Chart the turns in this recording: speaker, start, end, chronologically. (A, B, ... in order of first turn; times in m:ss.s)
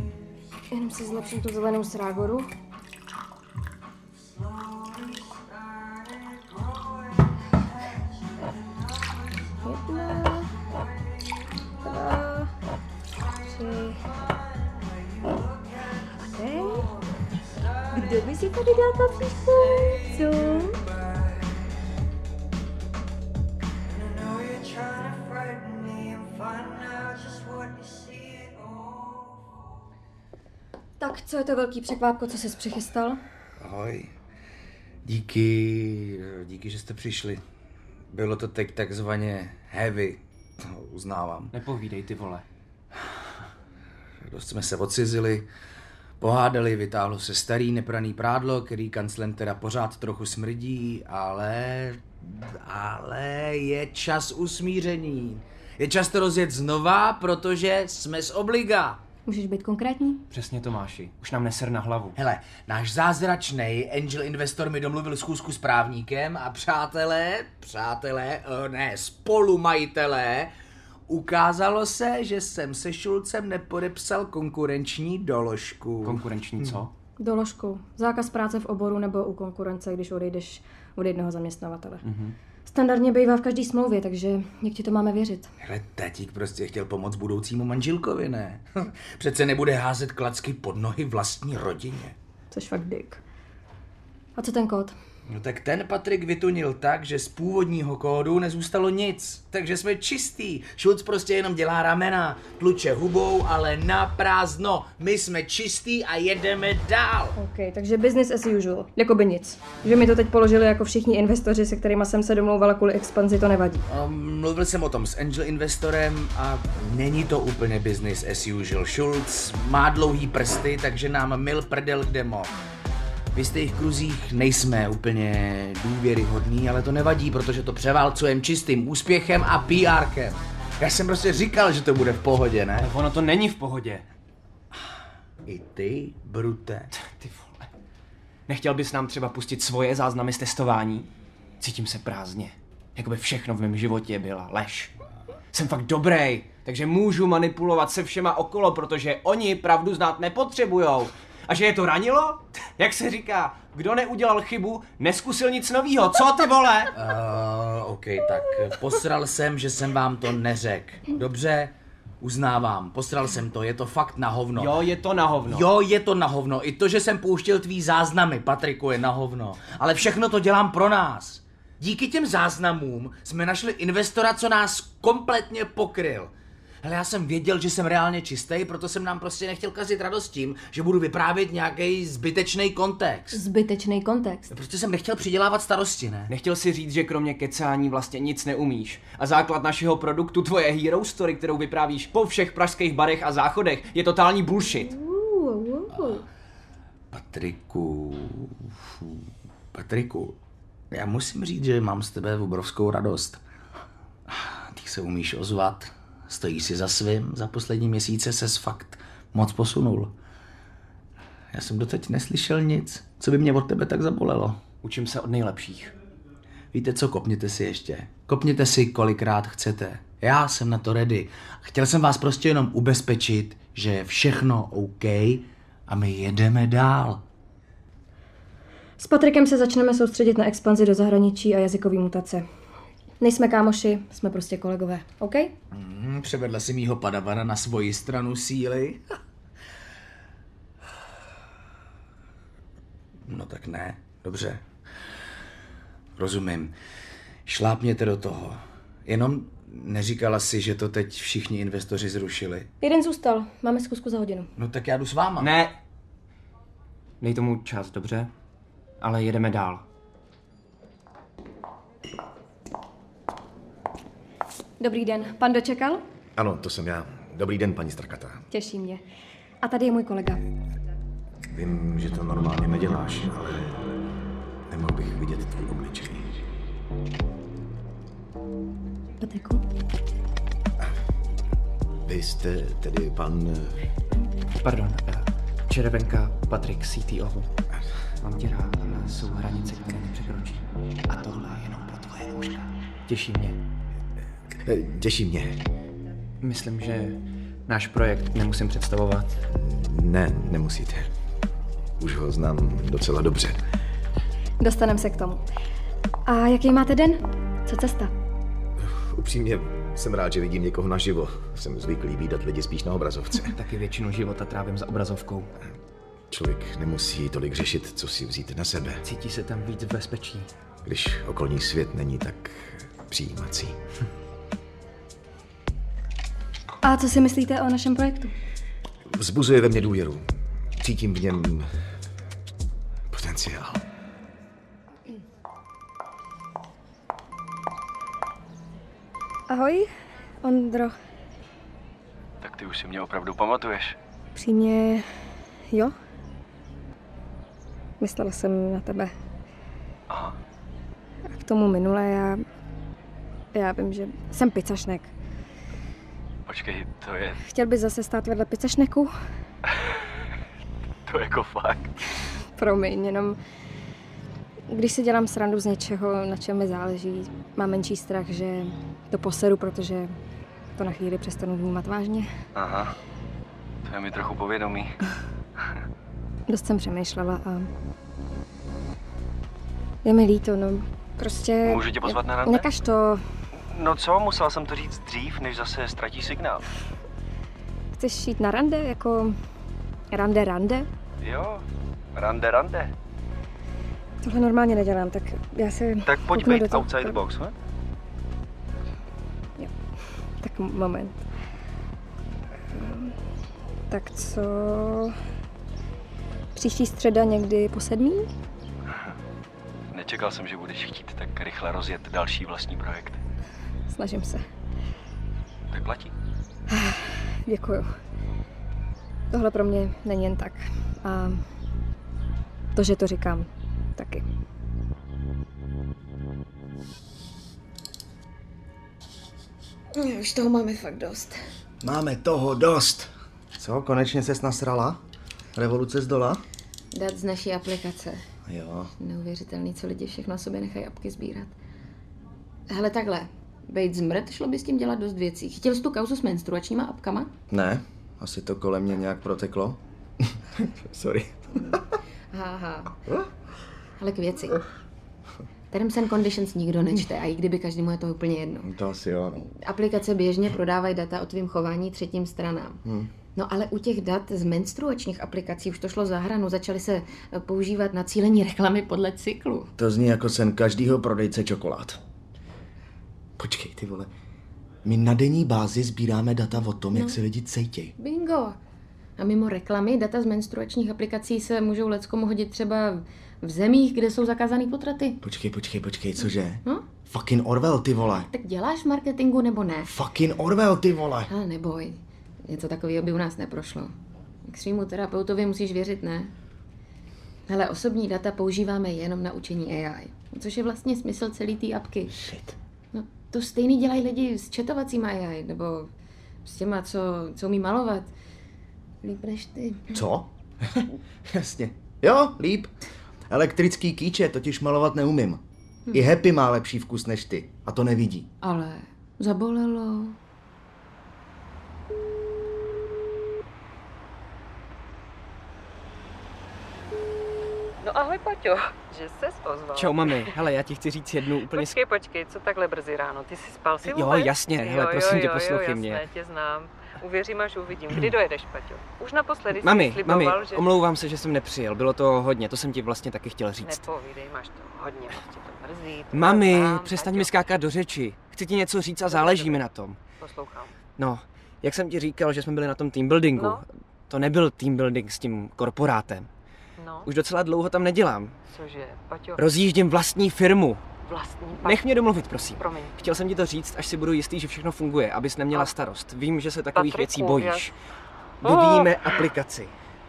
0:00.7-0:02.5 A
0:09.6-0:10.6 A
0:11.8-0:12.5 A
0:13.4-0:14.1 A
0:16.2-0:16.9 A
0:17.9-0:20.8 A
0:31.0-0:33.2 A
0:33.6-0:34.1 B
0:35.1-0:37.4 B
0:38.1-0:41.5 B
0:41.5-0:42.4 C
0:44.2-0:45.5 B
0:46.2-0:59.0 B
0:59.3-1:00.2 A
1:00.3-1:02.2 C
1:02.2-1:10.5 B
1:11.1-1:16.2 B
1:16.0-1:16.9 C
1:17.2-1:22.0 A
1:22.0-1:22.4 C
1:22.7-1:25.5 A
1:25.6-1:32.2 B
1:32.5-1:33.2 A
1:34.4-1:34.9 A
1:35.3-1:47.3 B
1:47.4-1:53.8 A
1:53.9-2:02.5 B
2:03.4-2:12.9 B
2:12.8-2:14.0 C
2:15.5-2:16.9 B
2:17.1-2:17.7 C
2:18.5-2:21.1 C
2:21.6-2:24.9 C
2:25.5-2:36.9 C
2:37.0-2:44.8 B
2:44.5-2:45.7 C
2:45.5-2:56.3 B
2:56.8-3:03.4 B
3:03.3-3:04.5 A
3:04.5-3:06.3 B
3:06.3-3:14.9 C
3:14.8-3:16.2 A
3:17.1-3:20.4 B
3:20.9-3:23.4 B
3:24.3-3:30.1 B
3:31.5-3:34.6 B
3:34.8-3:35.9 C
3:36.7-3:47.2 B
3:49.0-3:52.4 A
3:53.2-3:55.5 A
3:55.7-3:59.0 B
4:03.3-4:04.6 B
4:06.2-4:06.7 B
4:07.5-4:12.7 B
4:12.8-4:14.5 A
4:14.6-4:15.5 B
4:15.4-4:15.8 C
4:17.2-4:18.3 C
4:19.0-4:19.8 C
4:24.8-4:26.0 A
4:26.4-4:28.4 D
4:28.5-4:29.0 A
4:29.6-4:30.4 A
4:31.5-4:33.8 D
4:34.7-4:36.3 D
4:39.2-4:39.6 A
4:42.1-4:43.8 D
4:44.6-4:47.5 C
4:48.2-4:53.6 C
4:54.6-4:55.6 D
4:56.4-4:59.3 C
4:59.5-5:01.1 D
5:02.0-5:03.6 D
5:04.6-5:05.4 A
5:06.3-5:08.1 A
5:08.8-5:13.6 D
5:13.5-5:15.5 C
5:16.3-5:19.0 D
5:19.0-5:20.5 C
5:20.9-5:23.8 D
5:26.8-5:28.3 A
5:29.1-5:30.2 D
5:30.8-5:31.7 D
5:33.1-5:33.8 D
5:39.5-5:39.9 A
5:40.4-5:40.9 A
5:42.4-5:44.0 E
5:44.4-5:45.0 A
5:48.0-5:49.1 A
5:51.3-5:52.4 A
5:53.5-5:55.1 A
5:56.5-5:57.4 E
5:57.4-5:59.1 A
6:01.1-6:01.9 E
6:02.6-6:03.4 A
6:04.7-6:10.1 A
6:10.8-6:12.3 A
6:12.6-6:12.9 E
6:13.9-6:15.0 E
6:16.5-6:17.7 A
6:20.0-6:23.2 A
6:21.6-6:22.6 E
6:23.7-6:26.6 E
6:28.0-6:29.4 A
6:30.1-6:30.9 A
6:31.2-6:31.6 E
6:32.2-6:32.9 E
6:34.2-6:37.2 A
6:36.1-6:37.5 E
6:40.4-6:41.2 A
6:42.7-6:43.2 A
6:43.9-6:45.1 A
6:46.6-6:48.3 A
6:49.9-6:53.2 E
6:53.9-6:54.4 A
6:55.7-6:56.1 E
6:56.7-6:57.9 A
6:59.3-7:01.4 A
7:02.7-7:04.2 A
7:09.9-7:11.4 F
7:11.8-7:15.0 D
7:15.6-7:16.4 D
7:16.9-7:18.2 F
7:18.5-7:18.9 D
7:19.0-7:21.5 F
7:22.7-7:27.3 F
7:27.5-7:29.8 D
7:30.6-7:31.8 D
7:32.3-7:32.9 F
7:34.0-7:34.6 F
7:35.7-7:38.7 F
7:38.6-7:39.5 D
7:39.4-7:42.8 F
7:42.8-7:43.1 D
7:43.3-7:49.7 F
7:49.8-7:52.0 D
7:53.4-7:54.1 D
7:54.8-7:57.9 D
7:56.9-7:57.2 F
7:58.0-7:58.6 F
7:59.2-8:05.2 F
8:05.2-8:08.3 D
8:08.1-8:09.9 F
8:09.9-8:11.3 D
8:11.2-8:13.9 F
8:14.5-8:16.3 F
8:17.5-8:22.2 F
8:22.9-8:25.9 F
8:26.4-8:28.1 F
8:29.0-8:30.0 F
8:30.0-8:32.7 D
8:33.3-8:35.4 D
8:35.9-8:38.3 D
8:38.4-8:40.2 F
8:47.8-8:50.3 G
8:49.8-8:51.8 C
8:51.5-9:00.7 G
8:53.8-8:56.1 C
8:59.6-9:03.9 C
9:03.6-9:07.4 G
9:06.1-9:10.0 C
9:09.1-9:09.6 G
9:10.2-9:10.8 G
9:11.0-9:16.3 C
9:13.4-9:13.6 G
9:16.8-9:17.1 G
9:17.0-9:18.4 C
9:18.5-9:19.4 G
9:19.4-9:20.8 C
9:21.0-9:21.8 G
9:21.6-9:27.8 C
9:22.6-9:22.9 G
9:26.8-9:27.7 G
9:28.4-9:29.7 C
9:28.4-9:29.0 G